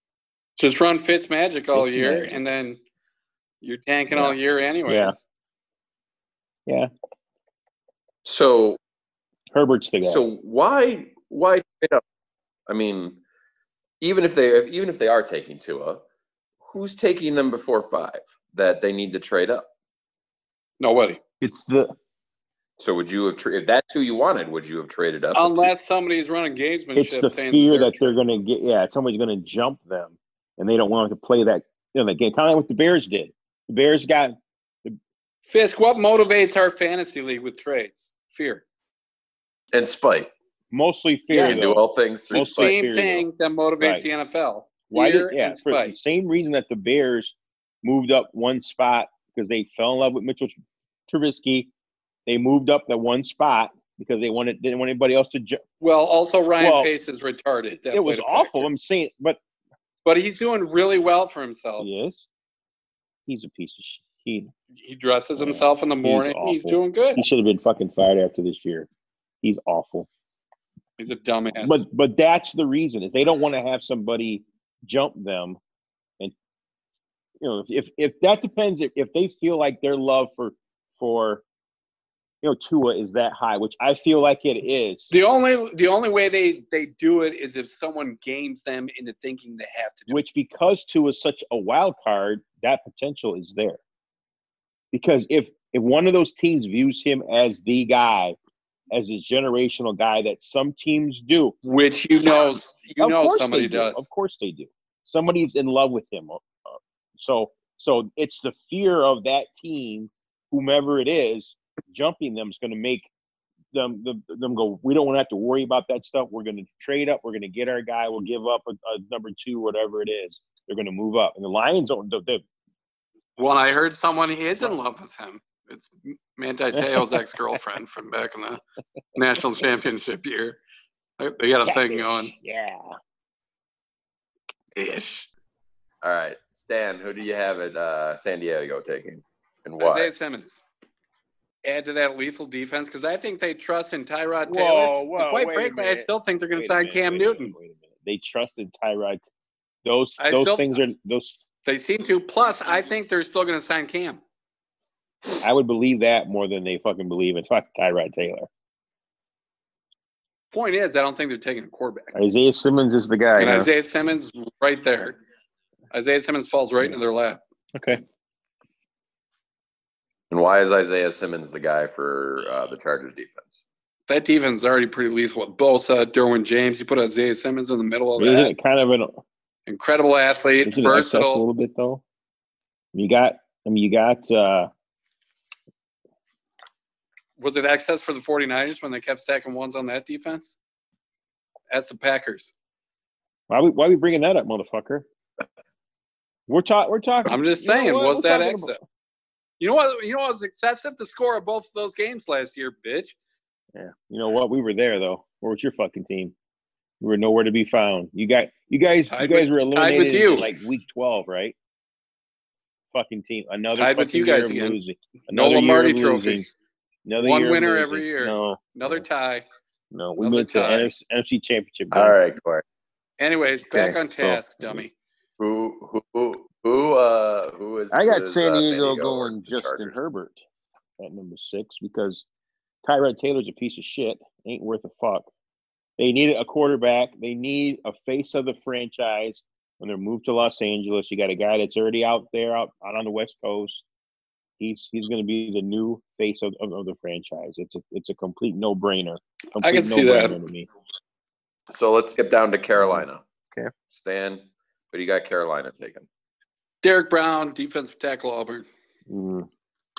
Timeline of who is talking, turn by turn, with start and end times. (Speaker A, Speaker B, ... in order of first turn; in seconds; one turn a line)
Speaker A: 0.6-2.8
Speaker B: 1.7-2.4
Speaker A: 3.6-5.2
Speaker B: 4.1-4.3
Speaker B: 4.9-5.2
Speaker C: 8.2-8.8
Speaker B: 9.5-10.2
Speaker C: 10.0-12.0
Speaker C: 12.7-13.2
Speaker C: 14.0-16.0
Speaker C: 16.6-19.7
Speaker A: 20.8-21.2
Speaker B: 21.4-21.9
Speaker C: 22.8-25.7
Speaker A: 25.3-28.1
Speaker B: 26.9-35.0
Speaker A: 35.4-38.6
Speaker C: 39.7-40.3
Speaker B: 40.7-43.3
Speaker A: 41.3-41.6
Speaker C: 41.4-42.7
Speaker A: 42.3-46.0
Speaker B: 43.8-44.1
Speaker B: 44.9-50.5
Speaker B: 51.1-51.7
Speaker B: 52.3-55.6
Speaker A: 55.8-58.7
Speaker B: 56.6-56.9
Speaker B: 57.9-59.4
Speaker A: 60.0-61.9
Speaker B: 61.8-62.3
Speaker B: 63.2-64.5
Speaker A: 64.8-67.2
Speaker B: 65.4-68.9
Speaker B: 69.4-70.1
Speaker A: 71.0-71.8
Speaker B: 71.5-75.6
Speaker B: 77.4-81.4
Speaker B: 82.4-85.1
Speaker A: 85.1-90.2
Speaker B: 90.1-93.8
Speaker B: 94.9-98.4
Speaker B: 98.9-101.5
Speaker A: 101.6-104.1
Speaker B: 103.0-113.1
Speaker B: 113.7-122.4
Speaker A: 123.4-128.6
Speaker B: 126.8-127.2
Speaker A: 129.1-130.6
Speaker A: 131.2-132.3
Speaker B: 131.6-132.9
Speaker A: 134.8-135.2
Speaker C: 136.0-140.1
Speaker A: 139.8-140.6
Speaker A: 141.6-147.5
Speaker B: 144.4-149.2
Speaker B: 149.8-151.4
Speaker A: 150.2-150.8
Speaker A: 151.6-154.2
Speaker B: 155.4-158.5
Speaker A: 160.5-162.1
Speaker B: 162.1-163.7
Speaker A: 163.3-165.2
Speaker A: 165.9-167.4
Speaker B: 167.7-168.0
Speaker C: 170.3-173.6
Speaker A: 174.1-178.5
Speaker B: 178.2-179.2
Speaker A: 179.7-181.4
Speaker B: 180.6-182.0
Speaker B: 182.9-184.7
Speaker A: 187.4-190.6
Speaker A: 191.7-192.5
Speaker B: 193.5-195.1
Speaker B: 196.5-198.8
Speaker A: 197.2-198.8
Speaker A: 199.6-203.2
Speaker B: 203.7-206.3
Speaker B: 207.0-211.6
Speaker A: 209.1-210.5
Speaker B: 212.9-216.5
Speaker A: 213.8-214.8
Speaker A: 215.3-216.4
Speaker B: 217.1-219.0
Speaker A: 217.2-219.5
Speaker B: 219.9-222.2
Speaker A: 220.2-220.9
Speaker C: 221.9-222.6
Speaker A: 223.2-224.9
Speaker B: 223.7-224.8
Speaker C: 225.4-229.9
Speaker B: 227.9-230.4
Speaker B: 231.0-232.2
Speaker B: 232.8-235.3
Speaker B: 236.0-243.8
Speaker B: 244.6-250.7
Speaker A: 249.6-250.4
Speaker C: 251.7-253.2
Speaker B: 252.8-253.7
Speaker C: 253.9-256.1
Speaker A: 256.8-258.6
Speaker B: 259.1-259.5